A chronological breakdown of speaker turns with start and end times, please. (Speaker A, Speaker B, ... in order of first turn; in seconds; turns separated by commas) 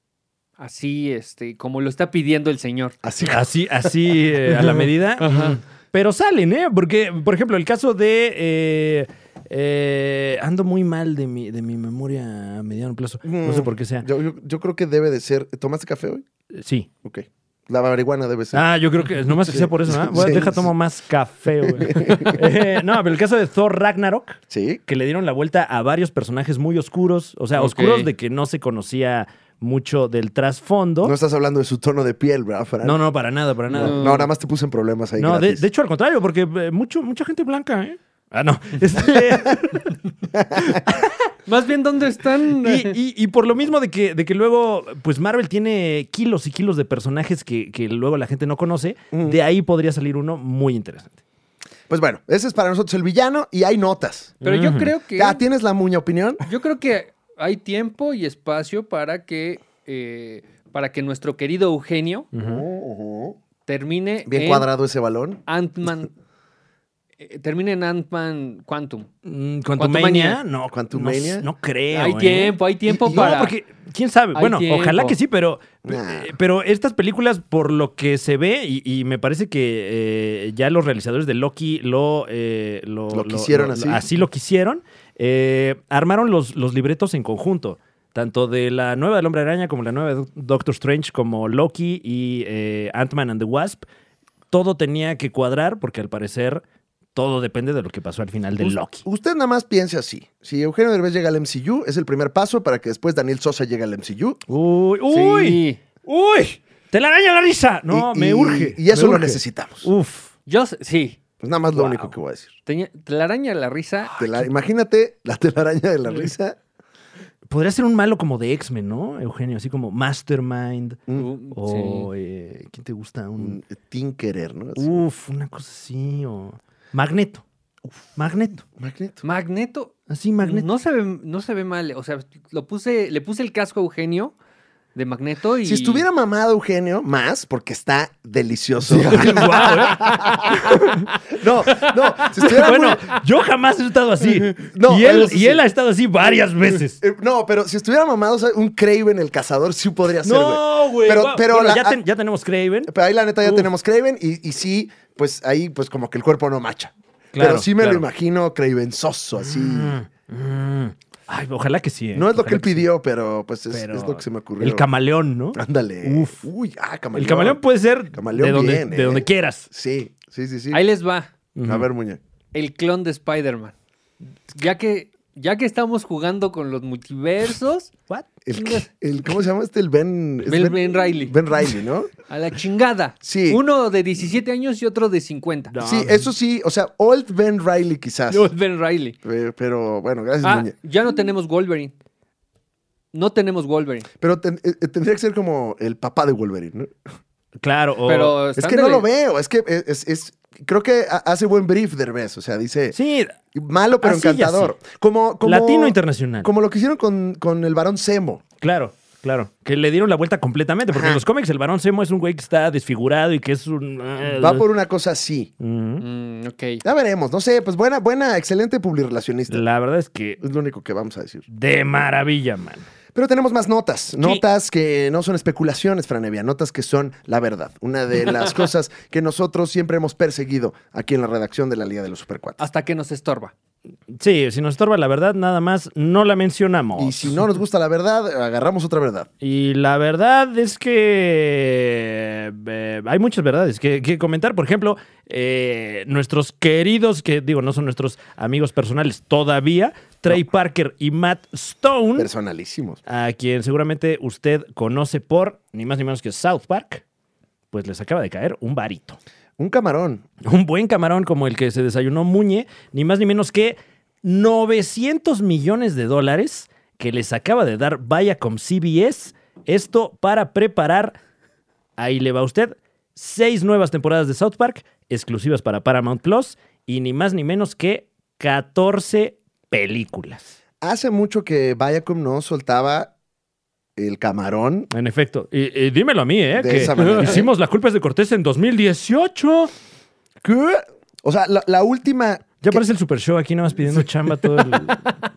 Speaker A: 0.6-3.0, Speaker B: 3.0-3.9, Speaker C: 3.2-14.1, Speaker A: 4.6-5.6, Speaker B: 13.2-16.2, Speaker C: 16.5-16.9, Speaker B: 17.0-18.6, Speaker C: 18.5-31.1, Speaker B: 19.4-20.7, Speaker B: 21.6-22.4, Speaker B: 24.5-24.8, Speaker A: 27.6-28.1, Speaker B: 31.0-33.0, Speaker C: 32.8-34.0, Speaker B: 33.7-35.6, Speaker A: 33.7-34.3, Speaker C: 35.2-40.0, Speaker B: 40.3-40.8, Speaker C: 40.5-41.1, Speaker A: 41.5-43.0, Speaker C: 42.5-51.1, Speaker B: 49.1-49.4, Speaker B: 51.9-54.4, Speaker C: 54.4-54.9, Speaker A: 54.4-55.4, Speaker B: 55.2-56.4, Speaker A: 56.4-62.3, Speaker C: 62.3-62.6, Speaker B: 62.4-63.4, Speaker A: 63.7-64.7, Speaker B: 64.3-65.4, Speaker A: 65.5-66.1, Speaker A: 67.2-69.1, Speaker C: 69.3-93.8, Speaker A: 69.8-70.4, Speaker B: 70.7-71.5, Speaker A: 71.9-73.5, Speaker B: 72.9-73.3, Speaker A: 74.3-75.2, Speaker B: 75.8-76.3, Speaker B: 83.1-84.2, Speaker C: 94.5-96.6, Speaker C: 97.2-99.0, Speaker B: 98.6-104.4, Speaker C: 104.5-110.3, Speaker A: 105.1-105.8, Speaker B: 107.9-109.9, Speaker A: 110.5-111.2, Speaker B: 111.4-112.5, Speaker C: 111.7-112.1, Speaker A: 112.7-114.2, Speaker C: 114.1-114.5, Speaker B: 114.2-116.6, Speaker C: 117.5-123.6, Speaker A: 121.1-122.1, Speaker B: 123.4-125.0, Speaker C: 124.8-127.4, Speaker C: 128.2-128.7, Speaker B: 128.8-129.2, Speaker A: 129.2-134.3, Speaker C: 130.1-130.7, Speaker A: 134.9-136.1, Speaker B: 135.6-143.1, Speaker C: 138.8-147.0, Speaker A: 142.4-143.2, Speaker B: 144.6-145.6, Speaker B: 147.0-152.0, Speaker C: 150.2-152.9, Speaker B: 152.9-160.0, Speaker C: 153.4-153.7, Speaker C: 157.3-158.1, Speaker C: 159.4-162.9, Speaker B: 162.2-164.9, Speaker C: 163.7-166.5, Speaker B: 165.5-167.6, Speaker C: 167.1-169.7, Speaker B: 168.1-170.8, Speaker A: 170.7-171.3, Speaker C: 171.6-171.9, Speaker B: 171.6-172.2, Speaker A: 172.5-173.7, Speaker A: 174.5-177.9, Speaker B: 178.5-182.1, Speaker A: 180.5-181.4, Speaker A: 182.3-185.7, Speaker B: 183.2-183.6, Speaker C: 185.7-186.3, Speaker B: 185.8-188.5, Speaker A: 188.3-189.2, Speaker B: 189.2-190.7, Speaker A: 190.4-191.9, Speaker A: 193.1-194.1, Speaker B: 194.2-196.9, Speaker C: 197.6-198.4, Speaker A: 198.1-199.1, Speaker B: 198.6-203.0, Speaker C: 202.9-203.3, Speaker B: 203.5-208.4, Speaker C: 204.0-204.7, Speaker C: 205.4-206.5, Speaker C: 208.6-214.7, Speaker B: 210.9-211.2, Speaker B: 214.3-215.5, Speaker C: 215.6-216.1, Speaker A: 216.0-216.8, Speaker B: 216.8-219.6, Speaker C: 219.5-220.4, Speaker B: 220.4-221.4, Speaker C: 221.5-222.9, Speaker B: 223.2-232.6, Speaker A: 232.6-233.5, Speaker C: 234.1-237.4, Speaker B: 237.0-239.3, Speaker C: 239.4-252.3, Speaker B: 252.2-253.0, Speaker C: 253.1-257.0, Speaker C: 257.7-259.2, Speaker B: 259.6-260.3, Speaker C: 260.4-271.2, Speaker C: 272.0-280.5, Speaker B: 280.8-283.1, Speaker B: 284.0-284.9, Speaker C: 284.9-289.7, Speaker B: 286.5-287.5, Speaker A: 286.8-287.5, Speaker B: 290.4-292.8, Speaker C: 292.6-295.2